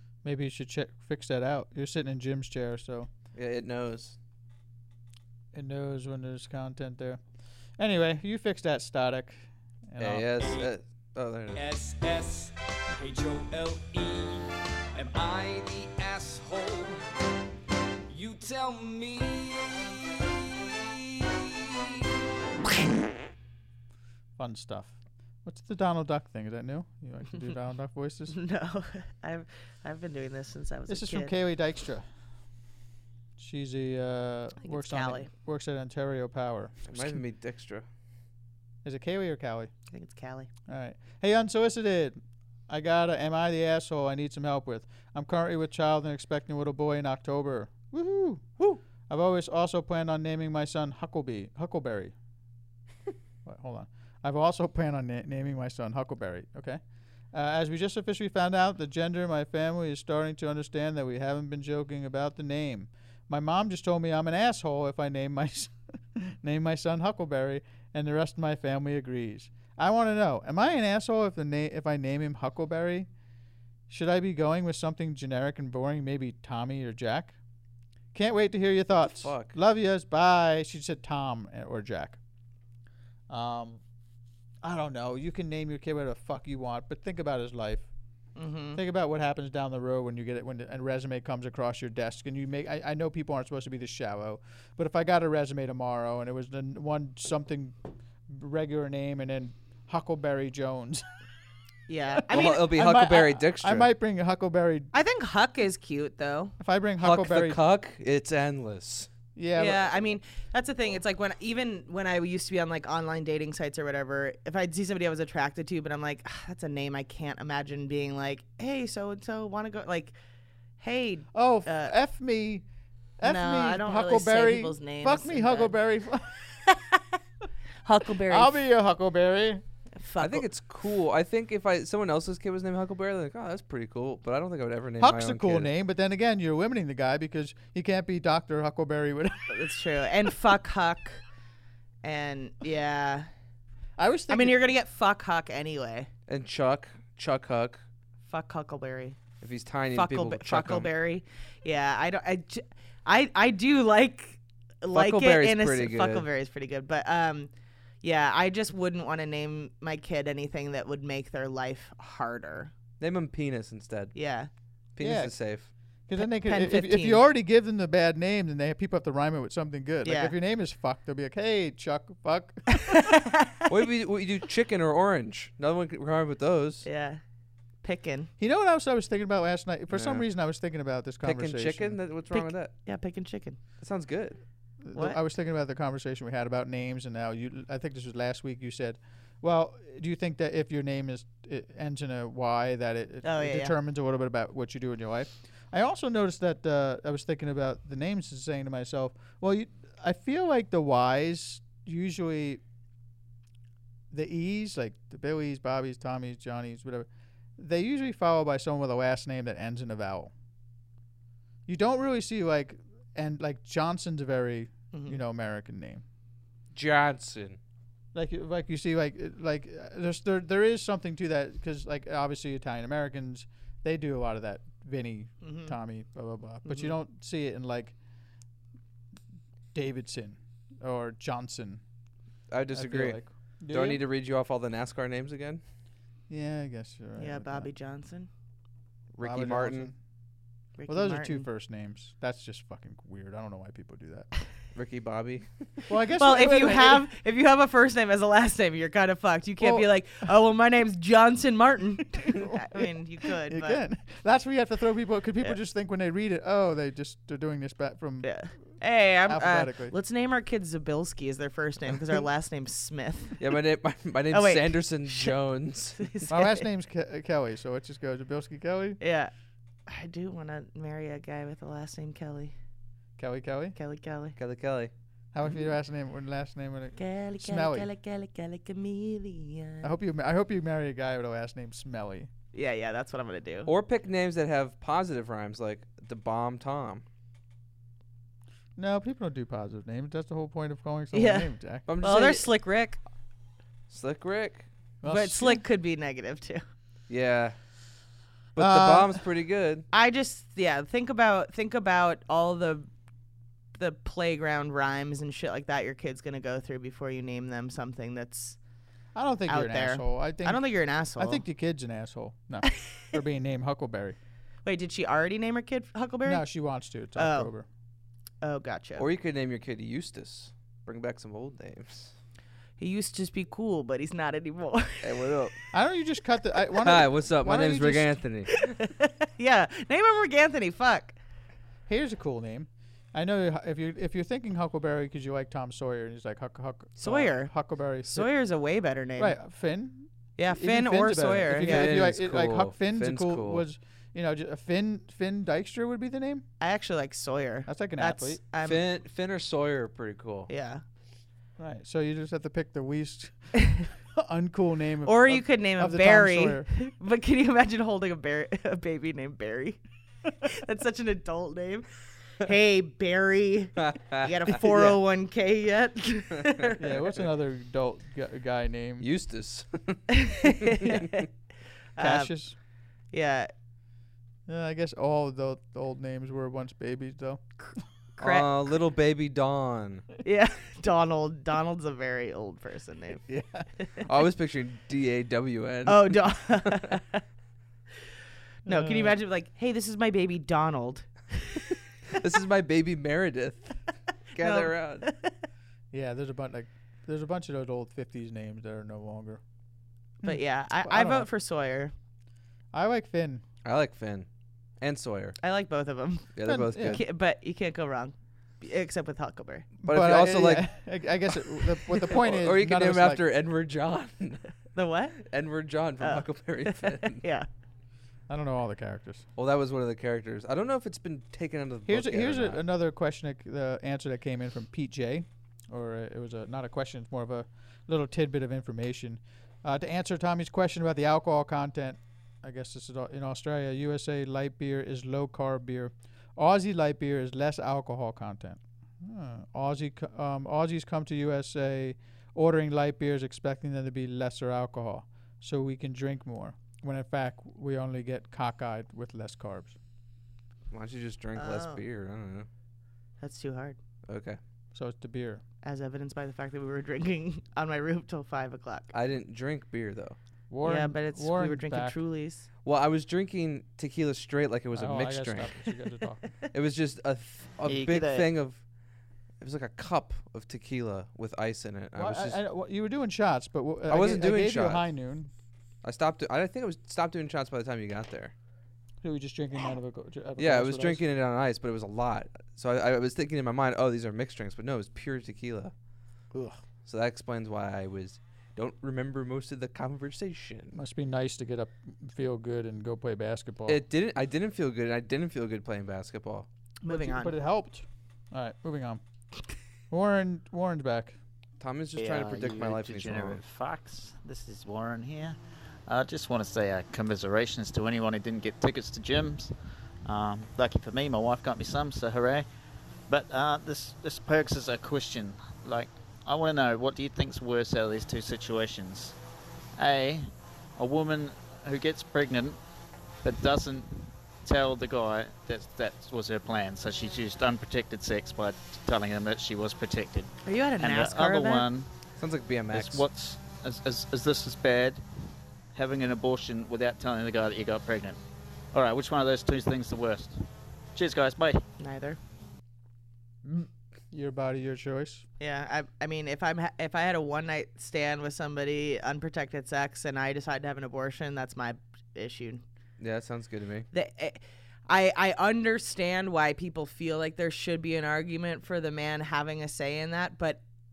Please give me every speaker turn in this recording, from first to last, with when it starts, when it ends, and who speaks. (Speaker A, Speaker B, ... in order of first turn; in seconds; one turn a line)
Speaker A: 0.2-3.1
Speaker B: 3.4-4.2
Speaker A: 5.5-7.2
Speaker A: 7.8-10.3
Speaker B: 10.0-11.6
Speaker C: 10.4-10.7
Speaker C: 11.5-17.0
Speaker C: 18.1-19.8
Speaker C: 21.1-21.8
Speaker A: 24.4-28.4
Speaker D: 28.3-31.4
Speaker A: 30.9-32.1
Speaker A: 33.4-37.2
Speaker D: 34.6-35.3
Speaker B: 36.9-37.9
Speaker A: 38.8-39.7
Speaker D: 39.9-40.5
Speaker A: 40.7-52.1
Speaker A: 53.5-56.8
Speaker A: 57.3-73.1
Speaker A: 73.9-77.3
Speaker A: 78.1-82.2
Speaker B: 79.2-79.5
Speaker A: 83.3-83.8
Speaker A: 84.6-87.9
Speaker D: 88.4-88.8
Speaker A: 88.7-97.8
Speaker A: 98.3-101.0
Speaker D: 101.9-102.7
Speaker A: 102.1-104.9
Speaker B: 102.3-103.9
Speaker D: 104.9-106.5
Speaker A: 106.6-107.6
Speaker B: 107.0-109.1
Speaker A: 109.4-110.2
Speaker D: 109.6-120.1
Speaker D: 120.8-121.9
Speaker A: 121.3-122.7
Speaker A: 123.2-126.5
Speaker D: 123.2-125.8
Speaker D: 126.7-127.0
Speaker D: 127.8-128.6
Speaker A: 128.3-129.6
Speaker D: 130.0-130.4
Speaker B: 130.2-135.7
Speaker A: 135.0-139.7
Speaker D: 139.5-141.2
Speaker D: 142.0-143.3
Speaker A: 144.0-144.6
Speaker D: 144.3-146.1
Speaker B: 146.3-147.8
Speaker D: 148.3-149.2
Speaker B: 149.4-150.9
Speaker D: 149.9-157.5
Speaker B: 154.9-156.3
Speaker D: 158.0-162.7
Speaker B: 163.0-164.2
Speaker D: 164.2-164.5
Speaker B: 165.0-165.7
Speaker A: 165.0-165.3
Speaker A: 166.1-173.1
Speaker D: 166.2-167.2
Speaker D: 170.0-170.3
Speaker D: 172.7-173.7
Speaker B: 173.7-176.9
Speaker D: 176.8-177.2
Speaker D: 177.8-178.3
Speaker A: 178.4-182.0
Speaker B: 179.9-180.2
Speaker B: 181.2-182.7
Speaker D: 182.3-183.6
Speaker B: 183.8-184.4
Speaker A: 184.8-202.6
Speaker D: 193.2-193.7
Speaker A: 204.1-210.3
Speaker A: 211.7-216.0
Speaker D: 214.9-215.2
Speaker B: 216.7-217.6
Speaker A: 218.1-227.9
Speaker D: 225.4-225.8
Speaker D: 226.7-226.9
Speaker A: 229.7-231.8
Speaker B: 232.5-235.6
Speaker A: 232.7-234.0
Speaker A: 236.3-237.7
Speaker D: 237.2-238.3
Speaker B: 239.2-239.9
Speaker A: 239.2-239.9
Speaker D: 240.8-241.5
Speaker A: 240.9-244.3
Speaker B: 244.7-245.7
Speaker A: 245.9-247.0
Speaker D: 246.2-253.8
Speaker A: 249.6-249.9
Speaker A: 252.3-258.3
Speaker D: 258.2-263.4
Speaker A: 259.3-259.9
Speaker B: 263.4-266.1
Speaker D: 264.3-265.4
Speaker D: 266.0-266.6
Speaker A: 266.3-269.0
Speaker D: 269.0-269.3
Speaker D: 269.9-272.5
Speaker A: 273.2-273.8
Speaker D: 273.8-274.4
Speaker B: 274.4-274.9
Speaker A: 275.3-277.9
Speaker D: 277.0-279.9
Speaker A: 279.8-282.3
Speaker D: 282.5-283.7
Speaker B: 283.7-287.0
Speaker A: 288.8-291.9
Speaker D: 291.1-293.0
Speaker B: 291.9-292.5
Speaker B: 293.9-294.7
Speaker A: 295.0-295.6
Speaker D: 295.1-296.6
Speaker B: 297.1-297.6
Speaker A: 298.6-299.2
Speaker B: 298.6-299.9
Speaker D: 299.9-302.9
Speaker D: 303.8-308.6
Speaker A: 309.1-310.6
Speaker D: 309.5-311.4
Speaker A: 311.2-314.2
Speaker D: 314.6-316.4
Speaker A: 316.2-317.7
Speaker D: 317.2-317.5
Speaker D: 318.4-319.1
Speaker B: 319.0-322.1
Speaker D: 322.8-325.1
Speaker B: 325.0-325.5
Speaker A: 325.7-328.2
Speaker B: 326.8-328.6
Speaker D: 328.5-331.2
Speaker A: 331.9-338.3
Speaker D: 337.0-337.5
Speaker D: 338.1-339.4
Speaker A: 339.2-346.4
Speaker D: 340.4-342.0
Speaker B: 341.5-343.7
Speaker D: 346.6-348.8
Speaker A: 347.7-348.4
Speaker B: 348.6-350.5
Speaker D: 350.5-350.8
Speaker A: 351.6-353.6
Speaker A: 354.1-356.7
Speaker D: 355.1-359.8
Speaker D: 360.4-361.9
Speaker D: 362.4-366.8
Speaker B: 363.8-364.2
Speaker A: 364.5-365.0
Speaker A: 366.8-369.1
Speaker B: 369.0-370.9
Speaker D: 370.1-371.3
Speaker D: 372.0-372.3
Speaker A: 372.0-372.6
Speaker D: 373.1-373.5
Speaker A: 374.5-377.4
Speaker D: 377.6-378.7
Speaker B: 378.2-380.1
Speaker D: 380.2-383.2
Speaker A: 383.3-383.7
Speaker B: 384.0-386.9
Speaker D: 385.9-387.2
Speaker D: 388.6-391.8
Speaker A: 388.7-389.2
Speaker B: 392.2-393.8
Speaker B: 394.3-395.1
Speaker D: 394.4-395.3
Speaker A: 395.9-399.4
Speaker D: 400.2-401.9
Speaker A: 400.2-401.3
Speaker A: 402.7-403.4
Speaker B: 403.6-404.3
Speaker B: 404.8-405.4
Speaker D: 405.4-406.3
Speaker B: 406.4-407.0
Speaker A: 406.4-407.0
Speaker D: 406.9-409.7
Speaker B: 409.8-410.7
Speaker A: 409.8-413.2
Speaker B: 411.9-414.5
Speaker D: 414.7-415.2
Speaker B: 415.3-417.2
Speaker D: 416.0-417.5
Speaker A: 418.3-419.2
Speaker B: 419.4-422.6
Speaker A: 421.9-449.8
Speaker B: 450.7-452.5
Speaker D: 451.4-451.8
Speaker D: 453.2-453.8
Speaker B: 454.1-454.4
Speaker A: 454.7-455.4
Speaker D: 455.6-458.9
Speaker B: 458.9-460.2
Speaker A: 460.5-462.0
Speaker D: 460.6-462.5
Speaker B: 462.6-465.5
Speaker A: 464.7-466.2
Speaker B: 466.5-468.6
Speaker E: 467.7-468.3
Speaker B: 469.4-472.4
Speaker A: 471.9-475.3
Speaker B: 473.9-474.9
Speaker B: 475.8-478.3
Speaker A: 479.0-481.0
Speaker B: 480.4-485.7
Speaker B: 486.9-490.8
Speaker A: 490.7-493.8
Speaker B: 493.7-496.5
Speaker D: 496.8-497.3
Speaker A: 496.9-499.0
Speaker A: 499.9-501.2
Speaker B: 501.6-503.4
Speaker E: 502.0-509.5
Speaker E: 510.1-512.5
Speaker E: 513.1-519.2
Speaker E: 519.8-522.6
Speaker E: 523.2-531.9
Speaker D: 530.4-531.7
Speaker B: 532.2-533.1
Speaker E: 532.7-535.0
Speaker E: 535.7-538.2
Speaker E: 538.7-541.6
Speaker D: 541.8-542.2
Speaker A: 544.1-545.2
Speaker D: 545.4-552.6
Speaker B: 553.0-553.9
Speaker D: 553.9-560.6